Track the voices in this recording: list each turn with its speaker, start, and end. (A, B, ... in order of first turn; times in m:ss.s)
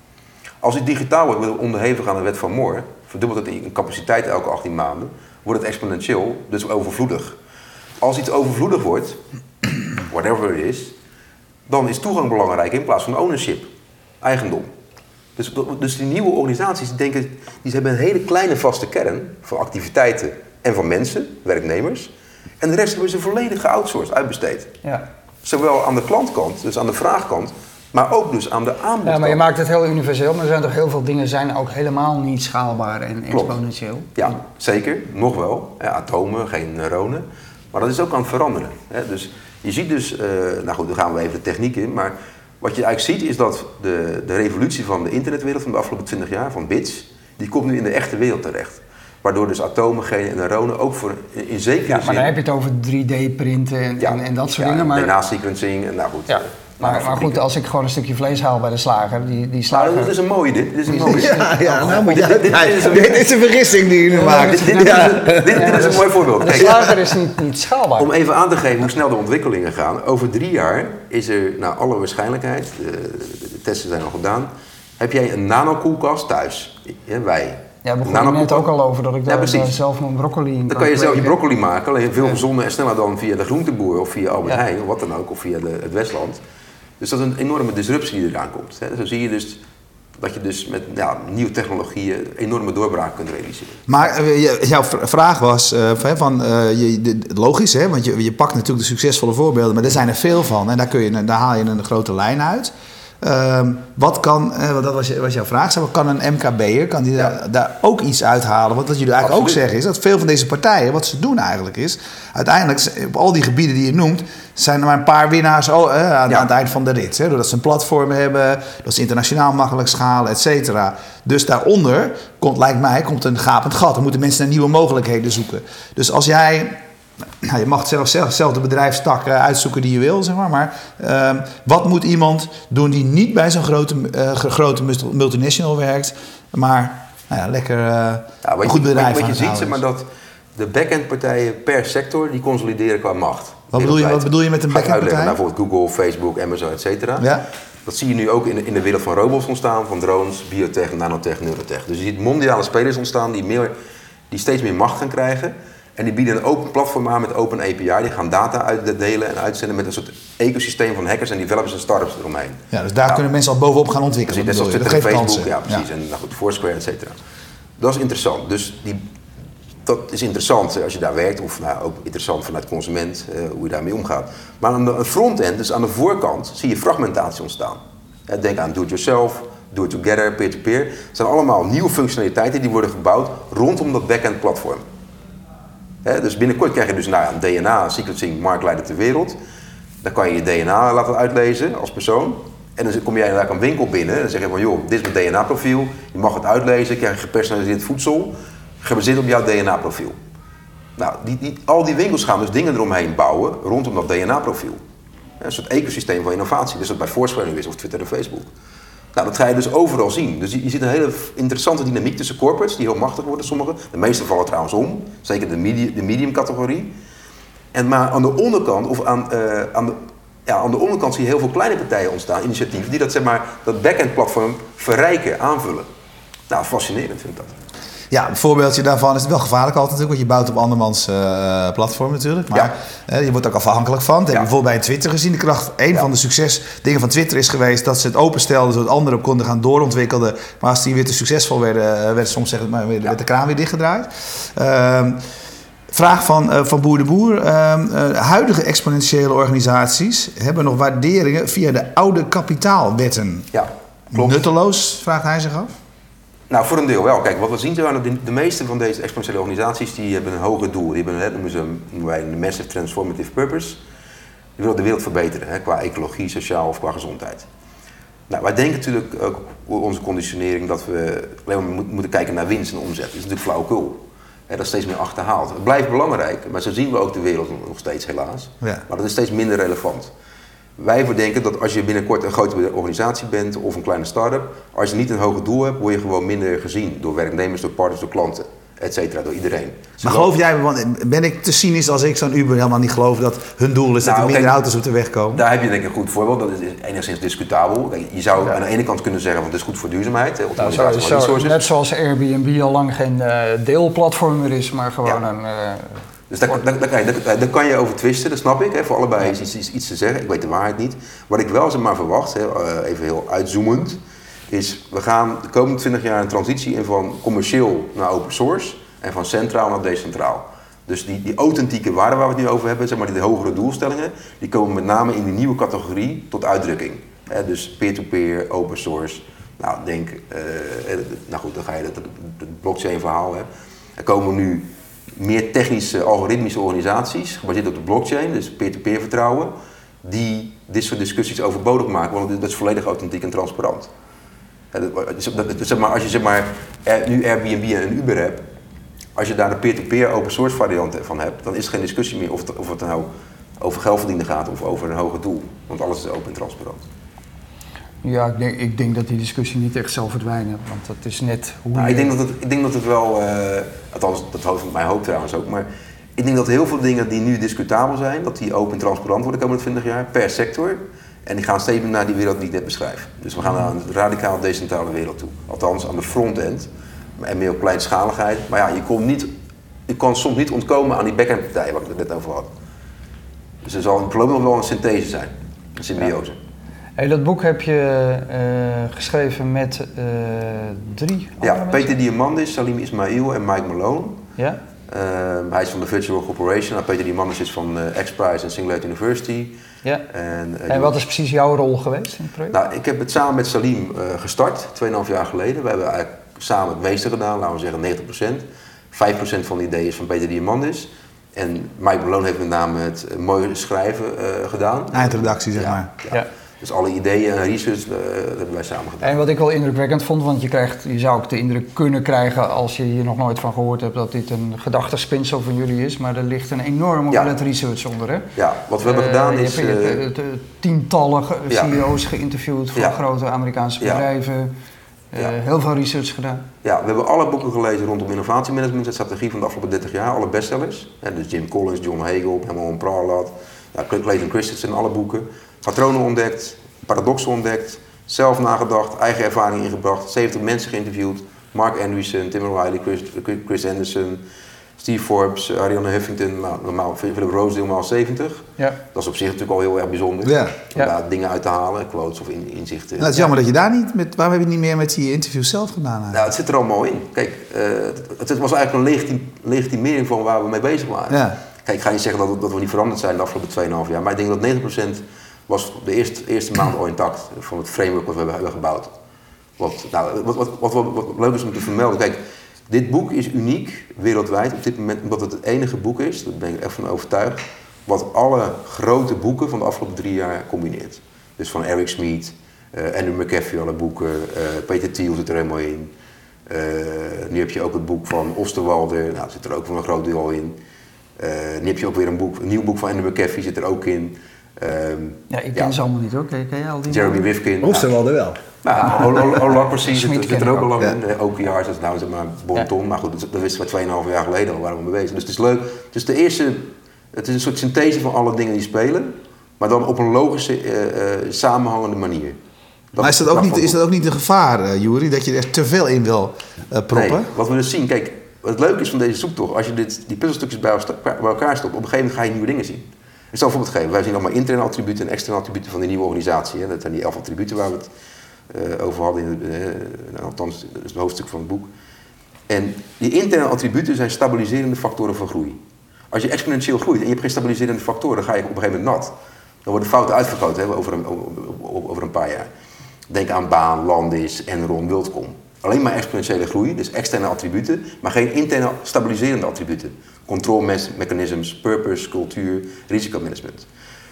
0:00.6-0:07.4 A
0:08.0-0:09.2 A
0:10.0-0:11.0 A
0:11.7-0:13.7 A
0:14.2-0:14.7 A
0:15.4-0:24.7 A
0:25.4-0:29.4 A
0:29.0-0:34.1 B
0:34.2-0:52.3 A
0:51.9-0:55.1 B
0:54.0-0:57.4 A
0:56.3-1:00.1 B
0:59.7-1:03.4 A
1:00.9-1:02.0 B
1:01.1-1:07.0 C
1:04.1-1:08.1 B
1:04.2-1:07.0 A
1:08.0-1:18.7 A
1:17.8-1:21.4 B
1:19.3-1:19.8 A
1:20.7-1:26.4 A
1:27.0-1:29.6 A
1:30.2-1:33.8 A
1:33.9-2:06.8 C
1:49.2-1:49.6 A
2:07.4-2:19.8 C
2:18.4-2:27.3 A
2:23.7-2:25.4 C
2:27.2-2:27.4 C
2:27.9-2:33.7 A
2:34.3-2:43.2 A
2:42.7-2:45.8 C
2:44.3-2:47.2 A
2:47.8-2:49.0 A
2:49.8-3:04.8 A
3:06.0-3:09.4 A
3:10.0-3:20.2 A
3:21.0-3:24.8 A
3:25.4-3:28.5 A
3:29.1-3:37.0 A
3:37.7-3:45.9 A
3:46.5-3:47.5 A
3:48.1-4:05.2 C
4:05.9-4:13.5 C
4:13.5-4:14.5 A
4:14.1-4:15.8 C
4:16.5-4:23.8 A
4:24.6-4:27.5 A
4:28.3-4:40.1 A
4:40.8-4:50.3 A
4:50.0-4:55.4 C
4:54.0-4:54.6 A
4:55.3-5:01.6 A
5:00.6-5:06.6 B
5:06.3-5:39.5 A
5:40.0-5:43.9 A
5:44.7-5:48.4 A
5:49.2-5:56.8 A
5:58.0-6:02.1 B
6:01.7-6:19.3 A
6:19.9-6:22.5 A
6:23.6-6:26.4 A
6:27.0-6:31.9 B
6:31.4-6:34.2 A
6:34.9-6:39.6 A
6:40.1-6:41.0 A
6:40.7-6:42.6 B
6:42.5-6:59.2 A
6:54.9-6:55.9 C
6:59.0-7:08.3 B
7:08.4-7:10.0 A
7:08.8-7:14.5 B
7:11.5-7:11.8 A
7:12.8-7:13.0 A
7:13.8-7:14.1 A
7:15.1-7:16.4 B
7:16.6-7:34.2 A
7:34.8-7:43.2 A
7:40.2-7:40.6 C
7:43.0-7:46.2 C
7:46.1-7:58.9 A
7:51.1-7:51.4 C
7:59.6-8:15.9 A
8:16.5-8:20.6 A
8:21.2-8:25.8 A
8:25.3-8:27.2 B
8:26.9-8:27.9 A
8:27.6-8:28.4 C
8:28.6-8:42.4 A
8:28.8-8:30.8 B
8:42.9-8:43.8 A
8:43.0-8:47.3 C
8:46.9-8:57.9 A
8:58.5-9:01.7 A
9:02.5-9:05.6 A
9:06.1-9:09.1 A
9:09.6-9:12.5 A
9:13.1-9:23.7 A